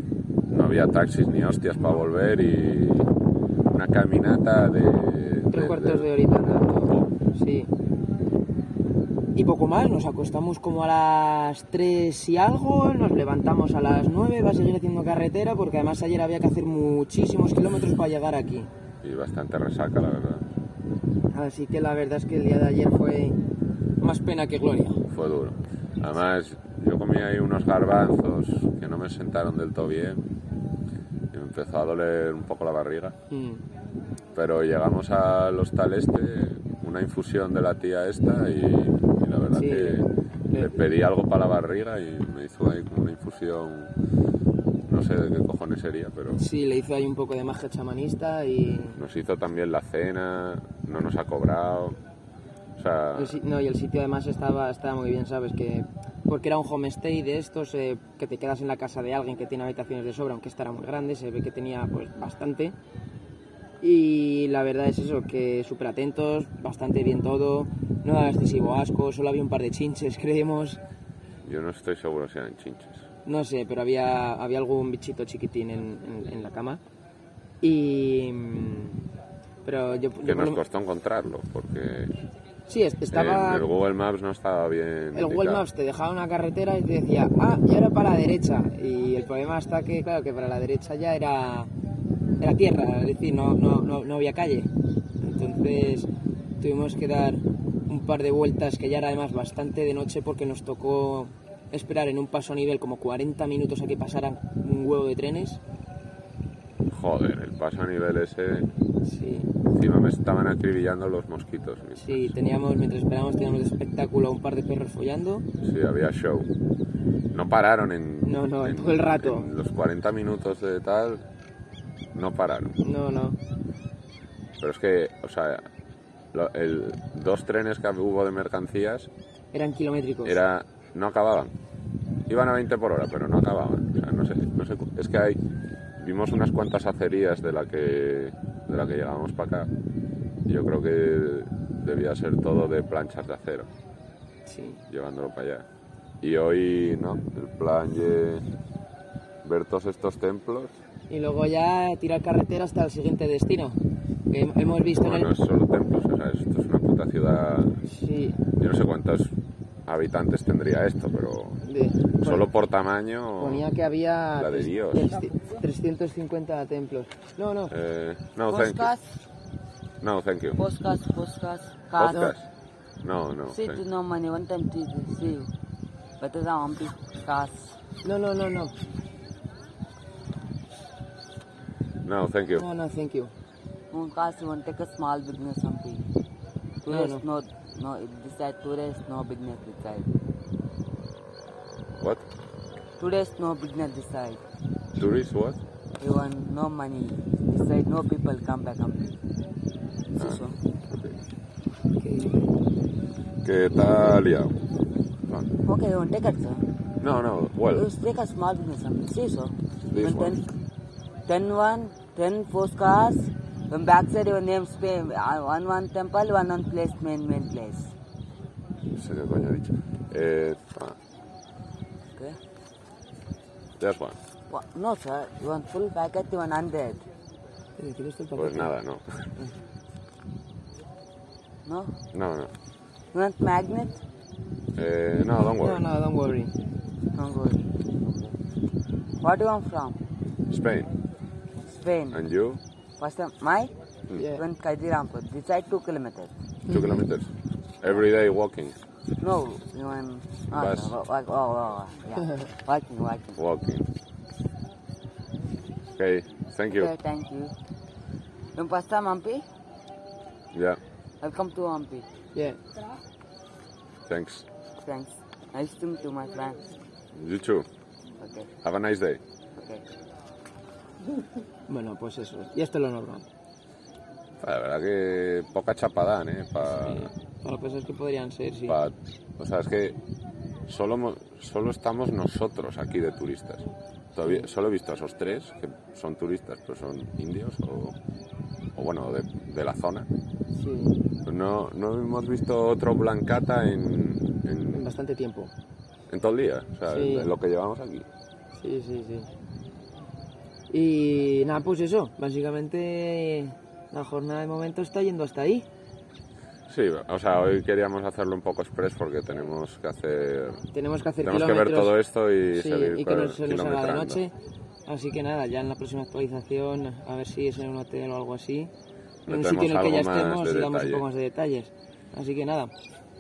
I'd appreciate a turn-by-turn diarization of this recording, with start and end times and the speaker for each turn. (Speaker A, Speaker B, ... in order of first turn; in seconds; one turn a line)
Speaker A: 0.5-3.1
Speaker A: 3.7-7.1
Speaker B: 5.5-7.7
Speaker B: 9.3-18.7
Speaker A: 19.0-20.5
Speaker B: 21.3-23.4
Speaker B: 24.0-25.0
Speaker A: 25.1-30.2
Speaker A: 31.3-33.1
Speaker B: 33.3-33.6
Speaker A: 34.4-43.9
Speaker B: 39.5-40.8
Speaker A: 44.9-46.5
Speaker B: 46.4-49.0
Speaker A: 49.0-52.0
Speaker A: 52.8-53.4
Speaker B: 53.2-62.8
Speaker B: 63.8-70.8
Speaker A: 71.5-73.0
Speaker B: 73.3-76.8
Speaker B: 77.6-79.0
Speaker B: 79.6-80.6
Speaker A: 80.2-82.1
Speaker B: 82.7-83.7
Speaker A: 83.1-85.6
Speaker B: 85.2-91.7
Speaker B: 92.4-94.7
Speaker B: 95.2-96.1
Speaker B: 96.6-105.6
Speaker A: 106.9-108.7
Speaker B: 109.0-109.5
Speaker A: 109.7-112.3
Speaker B: 112.2-115.4
Speaker A: 115.6-116.5
Speaker A: 117.3-121.2
Speaker B: 118.3-119.4
Speaker A: 122.2-122.8
Speaker B: 122.9-123.4
Speaker A: 124.6-125.6
Speaker A: 126.3-129.1
Speaker B: 129.5-130.4
Speaker A: 130.2-131.5
Speaker A: 132.3-135.4
Speaker A: 136.0-139.7
Speaker A: 140.5-143.7
Speaker B: 144.5-144.8
Speaker A: 144.9-145.7
Speaker A: 146.2-148.4
Speaker A: 149.4-150.8
Speaker B: 151.1-153.8
Speaker B: 154.3-155.3
Speaker A: 155.0-157.8
Speaker B: 157.9-158.4
Speaker A: 158.6-159.3
Speaker A: 159.9-161.6
Speaker B: 161.6-162.4
Speaker A: 162.2-163.7
Speaker B: 163.4-167.7
Speaker A: 164.3-165.2
Speaker A: 167.7-168.9
Speaker C: 168.5-169.1
Speaker A: 170.0-170.6
Speaker C: 170.6-172.2
Speaker A: 172.0-172.5
Speaker B: 172.1-172.3
Speaker A: 173.0-173.8
Speaker C: 173.5-175.5
Speaker C: 176.2-177.7
Speaker B: 178.0-178.7
Speaker A: 182.1-182.7
Speaker B: 182.6-183.3
Speaker C: 183.9-186.1
Speaker C: 186.8-190.1
Speaker B: 186.9-187.2
Speaker A: 192.0-192.3
Speaker C: 193.0-194.4
Speaker A: 195.0-195.6
Speaker C: 196.0-199.2
Speaker C: 200.1-200.6
Speaker A: 200.2-201.2
Speaker B: 202.0-202.5
Speaker A: 203.4-204.6
Speaker C: 205.6-206.6
Speaker A: 207.0-207.9
Speaker C: 207.7-210.5
Speaker A: 209.9-210.5
Speaker C: 211.3-217.9
Speaker A: 218.9-221.0
Speaker A: 223.8-224.2
Speaker C: 224.5-227.1
Speaker B: 227.8-228.7
Speaker A: 228.4-229.0
Speaker C: 231.7-231.9
Speaker A: 232.1-232.5
Speaker C: 233.1-234.0
Speaker A: 234.8-235.8
Speaker B: 235.4-236.5
Speaker C: 237.1-238.3
Speaker C: 239.2-240.0
Speaker A: 240.5-240.9
Speaker C: 241.7-242.2
Speaker A: 242.1-242.6
Speaker C: 243.0-243.7
Speaker C: 244.2-246.3
Speaker A: 246.7-248.8
Speaker C: 249.2-253.4
Speaker A: 250.5-250.9
Speaker A: 253.4-253.9
Speaker A: 256.0-256.9
Speaker C: 256.7-257.5
Speaker C: 258.6-259.4
Speaker A: 260.5-260.8
Speaker C: 261.2-262.1
Speaker A: 264.1-264.5
Speaker C: 264.8-266.6
Speaker A: 267.1-267.7
Speaker C: 268.2-268.5
Speaker A: 268.6-269.2
Speaker C: 269.6-269.9
Speaker B: 271.7-273.3
Speaker A: 274.4-277.1
Speaker B: 277.4-278.6
Speaker A: 278.7-280.0
Speaker A: 280.7-288.0
Speaker A: 288.8-290.1
Speaker B: 290.6-291.0
Speaker A: 291.2-294.9
Speaker B: 294.8-295.5
Speaker A: 296.1-298.1
Speaker B: 296.9-297.3
Speaker B: 298.6-299.3
Speaker B: 300.7-305.7
Speaker A: 306.7-310.6
Speaker B: 310.7-311.9
Speaker A: 311.2-314.2
Speaker B: 312.5-314.3
Speaker B: 314.9-318.7
Speaker A: 319.3-321.0
Speaker B: 319.3-322.7